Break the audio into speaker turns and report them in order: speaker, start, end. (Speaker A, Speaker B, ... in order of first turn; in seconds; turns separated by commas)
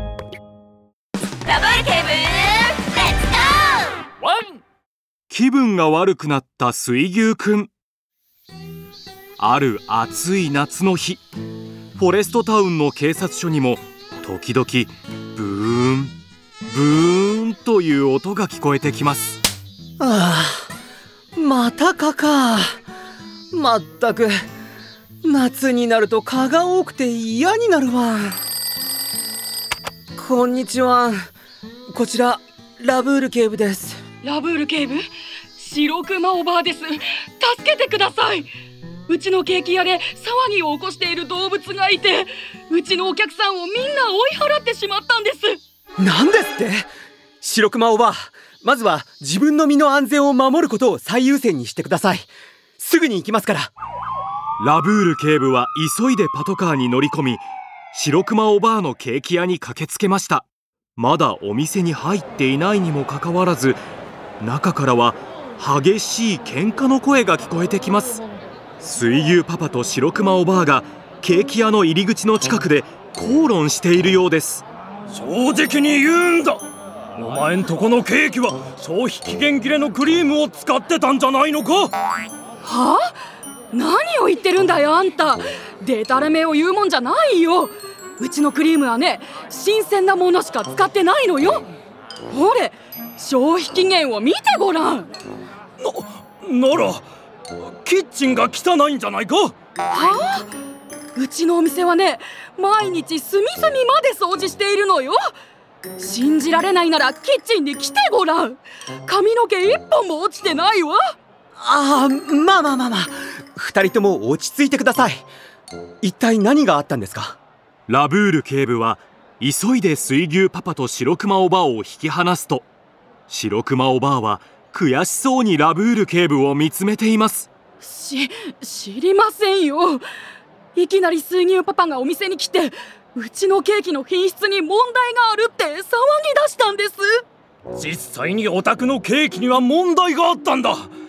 Speaker A: 1.4-4.0, Speaker B: 5.3-7.7, Speaker B: 9.4-11.2, Speaker B: 12.0-16.1, Speaker B: 16.7-19.4, Speaker C: 20.0-20.7, Speaker C: 21.4-22.8, Speaker C: 23.5-24.4, Speaker C: 25.2-28.4, Speaker C: 30.2-31.3, Speaker C: 31.9-34.0, Speaker D: 34.2-38.5, Speaker D: 39.1-45.6, Speaker C: 46.0-46.9, Speaker C: 47.4-53.7, Speaker B: 54.6-60.5, Speaker B: 61.0-63.8, Speaker B: 64.4-68.2, Speaker B: 68.8-74.6, Speaker E: 75.1-76.7, Speaker E: 77.2-81.9, Speaker D: 82.6-83.2, Speaker D: 83.7-91.7, Speaker D: 92.3-95.1, Speaker E: 95.8-99.5, Speaker D: 99.9-100.5, Speaker D: 101.2-105.2, Speaker D: 106.0-111.1, Speaker C: 111.6-115.3, Speaker C: 116.0-117.4, Speaker B: 117.9-122.7, Speaker B: 123.3-127.5, Speaker D: 127.8-130.0, Speaker D: 130.8-137.2, Speaker E: 137.7-140.9